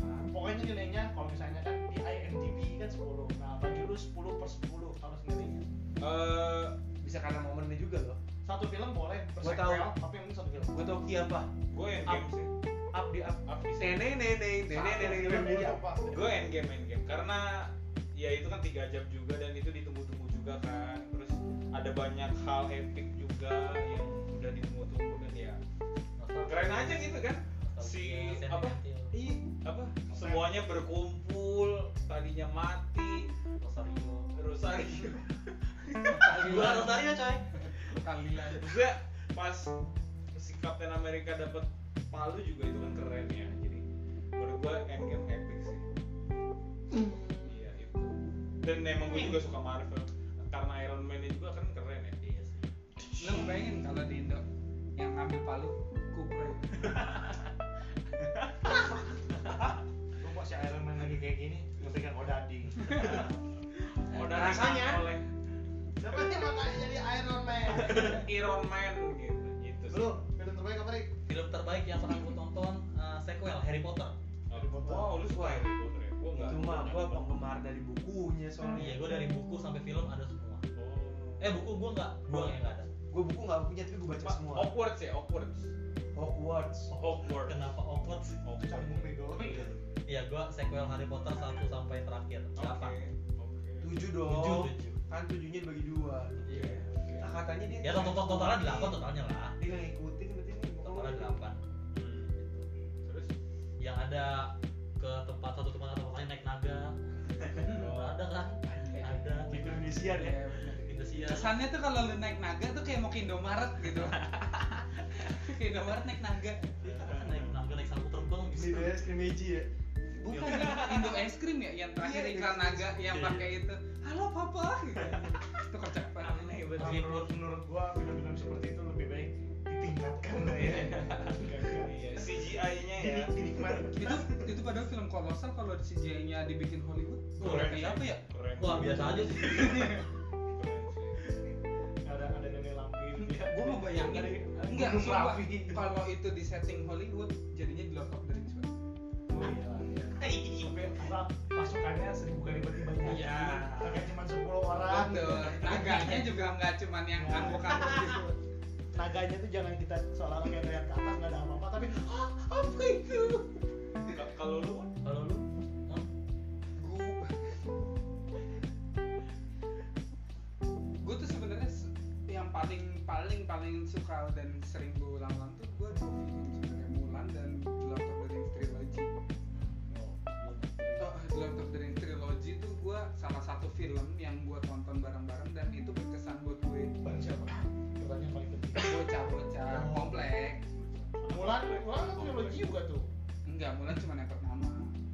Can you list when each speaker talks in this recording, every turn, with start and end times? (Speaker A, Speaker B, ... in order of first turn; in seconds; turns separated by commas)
Speaker A: 0.1-5.7, Speaker B: 6.0-6.8, Speaker C: 7.0-8.2, Speaker A: 8.4-10.9, Speaker C: 9.4-9.9, Speaker C: 10.7-11.5, Speaker B: 11.7-12.5, Speaker C: 12.9-15.8, Speaker B: 13.5-14.1, Speaker A: 14.7-16.4, Speaker B: 16.1-25.6, Speaker D: 26.2-29.1, Speaker B: 26.4-33.3, Speaker A: 30.1-30.6, Speaker D: 33.6-34.3, Speaker B: 34.3-36.8, Speaker E: 36.1-37.0, Speaker D: 36.2-37.6, Speaker E: 37.9-38.7, Speaker B: 38.5-39.7, Speaker B: 40.3-43.8, Speaker B: 44.4-45.9, Speaker B: 47.4-52.4, Speaker D: 52.3-52.6, Speaker E: 53.2-54.4, Speaker E: 55.0-56.9, Speaker A: 60.2-63.3, Speaker B: 63.0-63.3, Speaker B: 64.0-65.2, Speaker C: 64.2-65.0, Speaker A: 66.0-68.3, Speaker B: 67.8-70.2, Speaker A: 69.9-71.1, Speaker D: 71.3-74.1, Speaker B: 74.5-77.3, Speaker A: 74.5-75.2, Speaker C: 75.2-75.7, Speaker C: 76.3-79.0, Speaker D: 78.7-80.6, Speaker B: 80.7-81.6, Speaker D: 81.4-82.9, Speaker C: 83.1-84.7, Speaker B: 84.2-85.7, Speaker C: 86.1-86.9, Speaker B: 86.9-87.6, Speaker D: 87.4-88.4, Speaker B: 88.4-90.0, Speaker A: 88.6-89.7, Speaker D: 90.0-93.0, Speaker B: 92.5-93.9, Speaker C: 93.8-99.0, Speaker D: 94.2-95.0, Speaker B: 96.5-97.3, Speaker D: 97.8-99.6, Speaker C: 99.6-101.4, Speaker D: 100.8-101.6, Speaker B: 101.9-102.3, Speaker D: 102.3-102.7, Speaker B: 103.0-103.3, Speaker D: 103.8-111.6, Speaker B: 107.5-108.2, Speaker E: 108.7-109.2, Speaker C: 109.5-110.4, Speaker E: 110.0-114.3, Speaker E: 115.1-116.7, Speaker D: 116.8-119.0, Speaker B: 116.9-117.5, Speaker C: 118.5-119.7, Speaker E: 120.2-126.6, Speaker D: 120.2-121.0, Speaker B: 120.5-121.2, Speaker C: 122.0-123.0, Speaker D: 123.1-123.5, Speaker B: 126.2-127.1, Speaker D: 126.7-127.3, Speaker A: 126.8-134.4, Speaker B: 130.5-133.3, Speaker E: 133.9-138.2, Speaker D: 137.4-140.0, Speaker B: 137.4-139.8, Speaker E: 138.9-140.0, Speaker B: 140.5-141.2, Speaker A: 142.0-145.8, Speaker E: 143.2-148.7, Speaker A: 149.3-156.5, Speaker C: 150.1-151.2, Speaker E: 153.1-154.0, Speaker E: 154.8-158.3, Speaker A: 157.1-158.3, Speaker A: 158.9-163.5, Speaker B: 164.1-164.9, Speaker D: 165.0-166.1, Speaker E: 166.8-167.5, Speaker E: 171.0-179.1, Speaker D: 179.5-179.8, Speaker A: 179.9-181.0, Speaker E: 180.9-186.9, Speaker A: 187.0-189.0, Speaker E: 188.8-190.6, Speaker A: 189.7-190.3, Speaker B: 190.8-192.7, Speaker A: 191.3-193.1, Speaker E: 193.5-194.9